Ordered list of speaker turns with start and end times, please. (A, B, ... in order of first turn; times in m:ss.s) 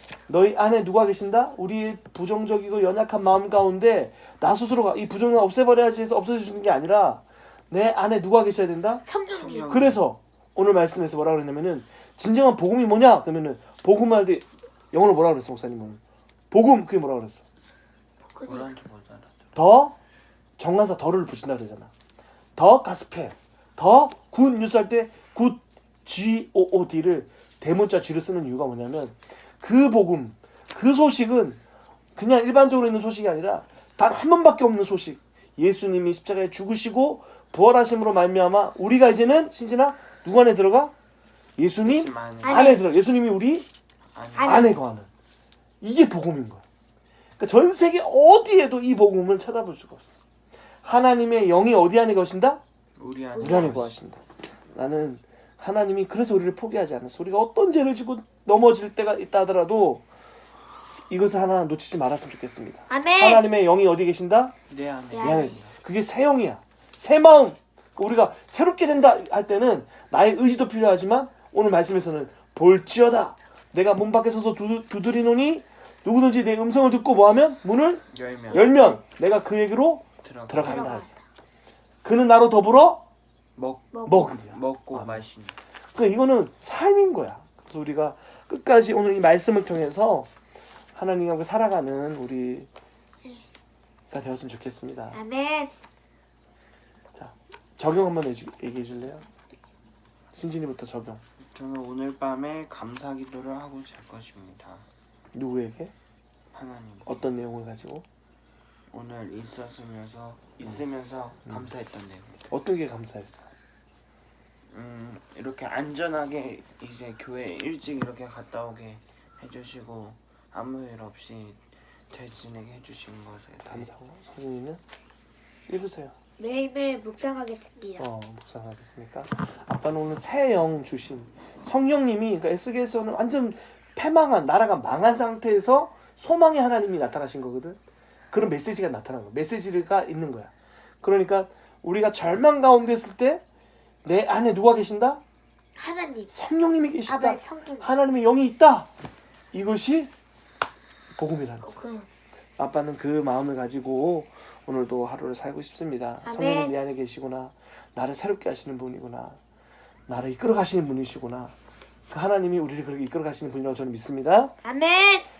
0:00.3-0:09.0 A
0:09.1-0:09.8 B
0:09.3-0:10.0 C
0:09.7-0:17.4 A
0:18.3-0:18.7 B
0:18.4-0:19.4 C
0:19.5-0:20.0 A
0:20.6-0:21.9 A
0:22.6-0:31.6 A
0:32.2-0:40.9 A
0:41.6-0:43.7 A
0:41.8-0:42.8 C
0:42.4-0:42.9 B
0:44.1-0:44.8 C
0:44.4-0:44.8 B
0:44.4-0:45.1 A
0:45.8-0:46.6 A
0:47.4-0:50.1 A
0:50.8-0:52.6 A
0:53.0-0:53.9 C
0:53.4-0:53.8 B
0:53.4-0:54.2 A
0:54.7-1:00.0 A
1:01.1-1:04.6 A
1:02.9-1:03.4 B
1:04.7-1:05.7 C
1:05.1-1:05.6 B
1:05.2-1:21.2 A
1:18.1-1:18.8 C
1:18.6-1:18.9 B
1:20.2-1:21.0 C
1:20.6-1:21.2 B
1:22.0-1:23.0 A
1:23.6-1:25.6 C
1:23.9-1:24.3 B
1:24.1-1:25.2 A
1:26.0-1:30.3 A
1:31.0-1:32.7 A
1:34.1-1:35.2 A
1:35.1-1:35.7 B
1:37.2-1:39.3 A
1:40.3-1:41.2 A
1:41.4-1:44.9 C
1:45.3-1:45.9 A
1:46.5-1:47.3 C
1:47.1-1:48.0 A
1:48.9-1:52.5 C
1:52.5-1:53.5 A
1:54.7-2:03.9 C
2:03.6-2:04.8 A
2:05.7-2:06.1 A
2:06.4-2:08.1 B
2:08.0-2:17.8 A
2:18.3-2:20.5 A
2:21.0-2:23.4 A
2:24.0-2:25.2 A
2:25.8-2:26.3 B
2:26.3-2:28.9 A
2:27.1-2:27.9 B
2:29.5-2:30.1 A
2:31.2-2:32.0 A
2:31.6-2:32.1 B
2:32.6-2:39.4 A
2:36.2-2:36.8 B
2:40.1-2:41.6 A
2:42.1-2:44.5 A
2:44.6-2:45.3 B